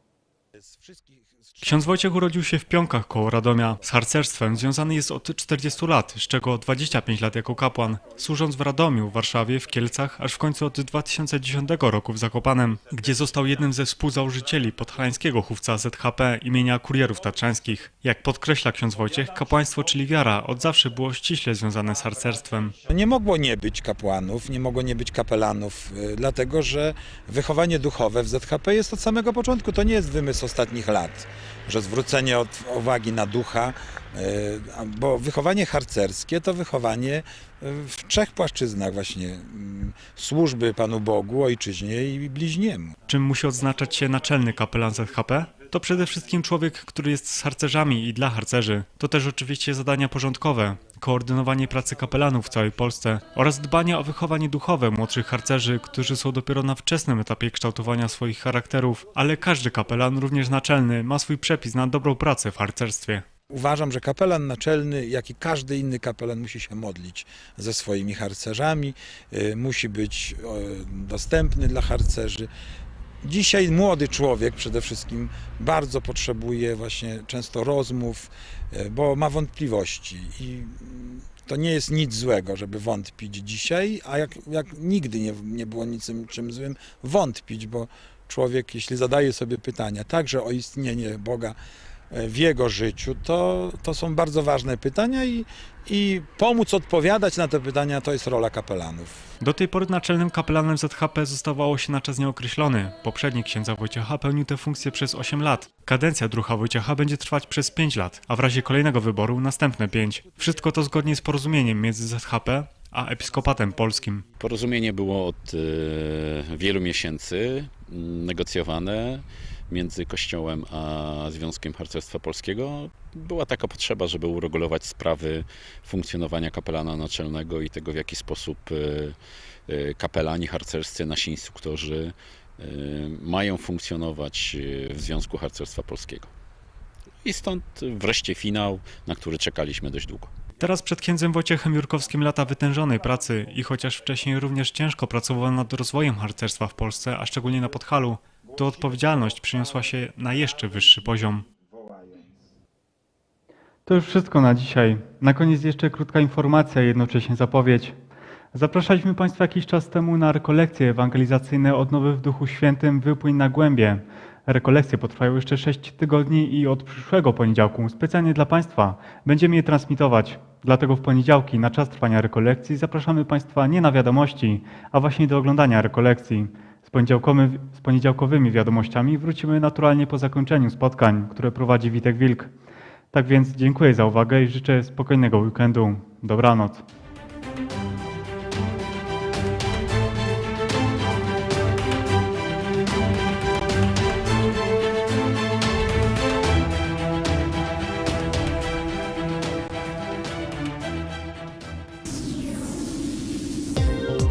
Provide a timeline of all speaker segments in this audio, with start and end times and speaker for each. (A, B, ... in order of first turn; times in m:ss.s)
0:00.7-0:01.6 A
0:01.6-0:22.7 B
0:22.8-0:42.9 A
0:43.1-1:03.2 B
1:03.5-1:12.5 A
1:13.2-1:31.6 A
1:32.1-1:39.2 A
1:39.4-1:54.2 B
1:54.4-2:16.3 C
2:17.2-2:20.3 C
2:20.6-2:31.4 B
2:33.8-2:38.0 B
2:38.5-3:02.5 B
3:03.1-3:06.8 B